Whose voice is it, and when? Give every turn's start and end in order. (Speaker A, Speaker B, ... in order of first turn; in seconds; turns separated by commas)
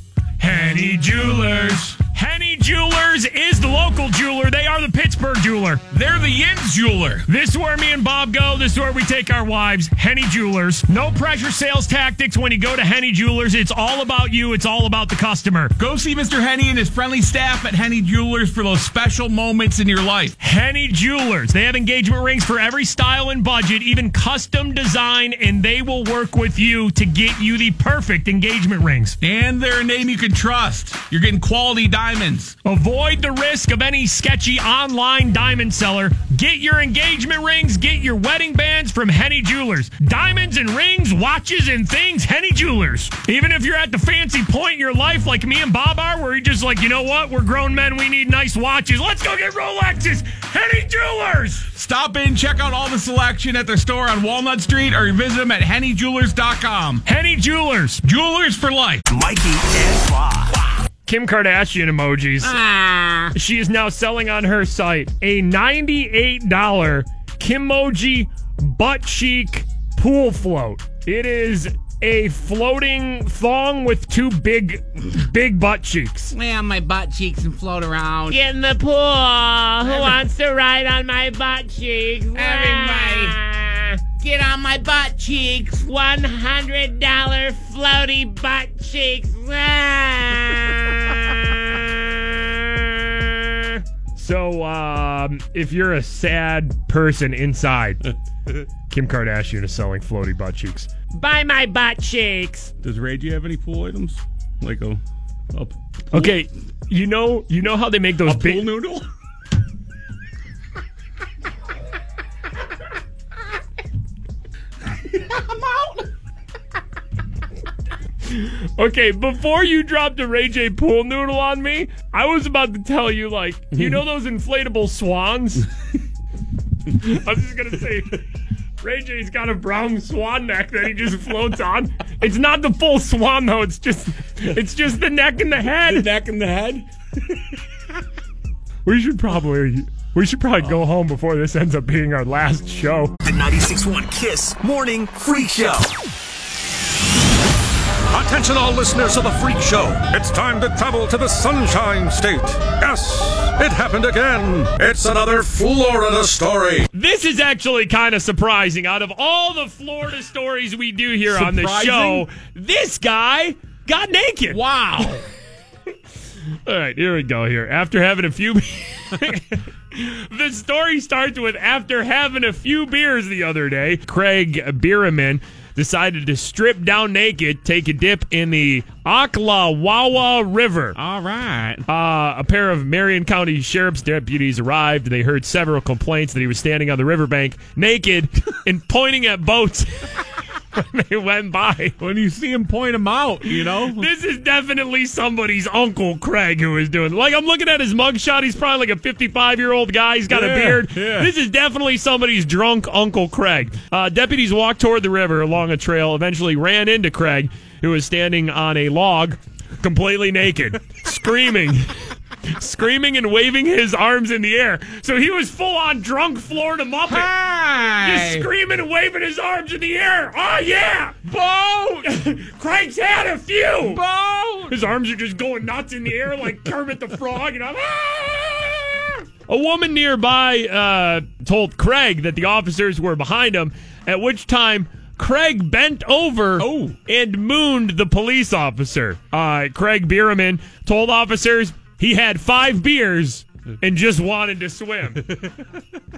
Speaker A: 0.4-5.8, Speaker B: 5.9-7.2, Speaker A: 7.3-15.7, Speaker B: 15.8-20.3, Speaker A: 20.4-29.2, Speaker B: 29.2-32.5, Speaker A: 32.6-51.6, Speaker B: 51.7-57.0, Speaker A: 57.0-58.0, Speaker B: 58.0-59.0, Speaker C: 59.1-60.5, Speaker A: 61.0-62.5, Speaker D: 62.4-63.3, Speaker A: 63.3-76.3, Speaker D: 76.3-78.4, Speaker A: 78.3-83.3, Speaker D: 79.8-80.2, Speaker D: 82.3-83.4, Speaker D: 84.2-85.9, Speaker A: 87.6-89.5, Speaker A: 94.2-98.0, Speaker A: 98.9-102.7, Speaker B: 102.8-105.0, Speaker B: 105.5-106.4, Speaker A: 106.1-108.7, Speaker B: 108.2-109.0, Speaker A: 118.3-125.7, Speaker A: 127.0-128.2, Speaker A: 128.8-136.1, Speaker B: 135.9-136.8, Speaker A: 138.8-143.1, Speaker C: 143.2-145.9, Speaker E: 148.1-156.9, Speaker A: 156.9-164.6, Speaker B: 161.2-162.3, Speaker B: 164.5-165.2, Speaker A: 166.7-181.0, Speaker B: 180.9-181.8, Speaker A: 181.9-189.9, Speaker A: 190.7-191.9, Speaker B: 192.0-194.1, Speaker A: 193.4-211.9, Speaker B: 200.3-201.3, Speaker A: 212.5-217.3, Speaker B: 217.1-218.5, Speaker A: 218.0-221.2, Speaker B: 221.2-222.1, Speaker A: 222.0-224.0, Speaker B: 223.8-224.8, Speaker A: 224.7-245.3, Speaker B: 236.6-237.0